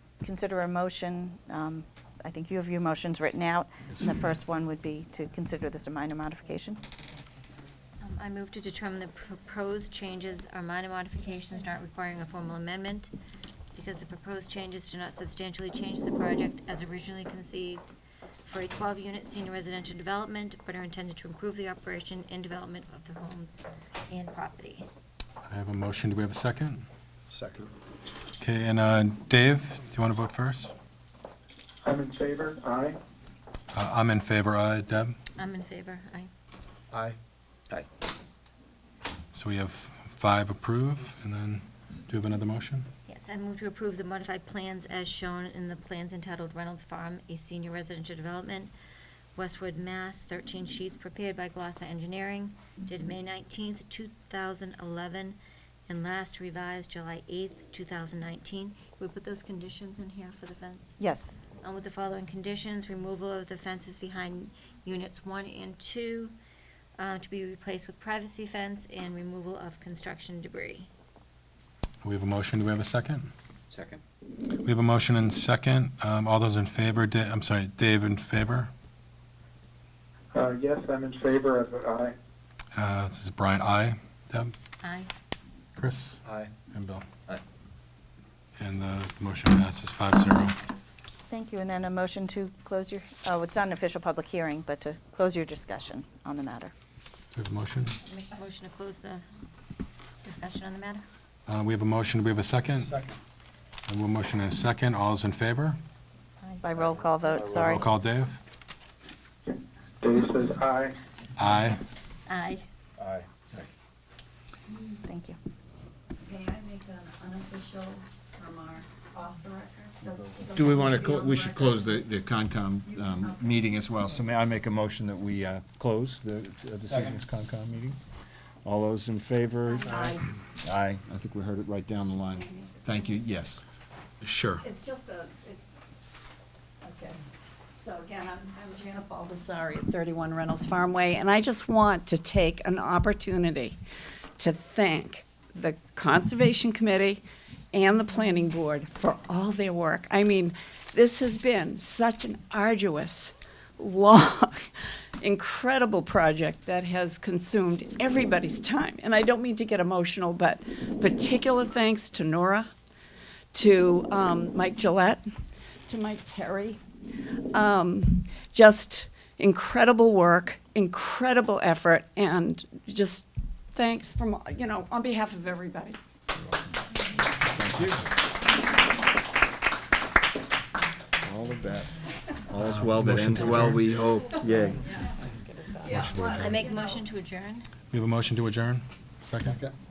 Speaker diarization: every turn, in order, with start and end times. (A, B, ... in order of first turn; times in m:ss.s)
0:00.2-0:06.8 A
0:08.0-0:13.1 B
0:13.7-0:17.9 B
0:18.4-0:24.9 B
0:25.5-0:26.8 C
0:27.3-0:27.7 D
0:28.4-0:30.7 C
0:31.8-0:33.0 E
0:33.7-0:35.2 C
0:35.4-0:36.3 B
0:39.3-0:42.9 C
0:43.1-0:48.7 B
0:49.4-1:01.0 B
1:01.0-1:01.4 A
1:01.6-1:06.3 B
1:07.0-1:10.9 B
1:12.0-1:13.3 C
1:14.6-1:18.7 C
1:20.3-1:22.1 E
1:22.7-1:24.5 C
1:24.8-1:25.1 B
1:25.8-1:26.2 C
1:26.2-1:26.5 D
1:26.7-1:27.1 C
1:28.6-1:30.5 C
1:31.3-1:36.7 A
1:37.4-1:38.0 C
1:38.0-1:39.2 B
1:40.2-1:41.0 B
1:41.5-1:43.0 C
1:42.8-1:43.1 D
1:43.9-1:45.8 C
1:46.6-1:47.8 A
1:47.2-1:47.9 D
1:47.6-1:48.4 C
1:50.0-1:51.0 E
1:51.4-1:51.8 C
1:52.3-1:52.6 B
1:53.0-1:53.7 D
1:54.7-1:55.0 F
1:55.0-1:55.4 A
1:56.2-2:02.1 F
2:00.5-2:08.0 G
2:02.8-2:03.6 F
2:06.9-2:07.2 D
2:08.6-2:13.6 G
2:09.6-2:10.2 F
2:09.9-2:10.1 D
2:12.3-2:12.7 F
2:14.2-2:14.6 C
2:14.6-2:15.6 F
2:16.8-2:17.2 F
2:17.8-2:23.8 F
2:24.4-2:42.7 F
2:43.5-2:45.3 F
2:45.9-2:46.8 F
2:47.5-2:56.0 F
2:57.5-2:58.1 G
3:01.2-3:04.8 G
3:02.7-3:04.0 C
3:05.6-3:06.9 F
3:05.9-3:06.6 C
3:06.0-3:07.7 B
3:07.9-3:09.6 C
3:09.4-3:09.7 D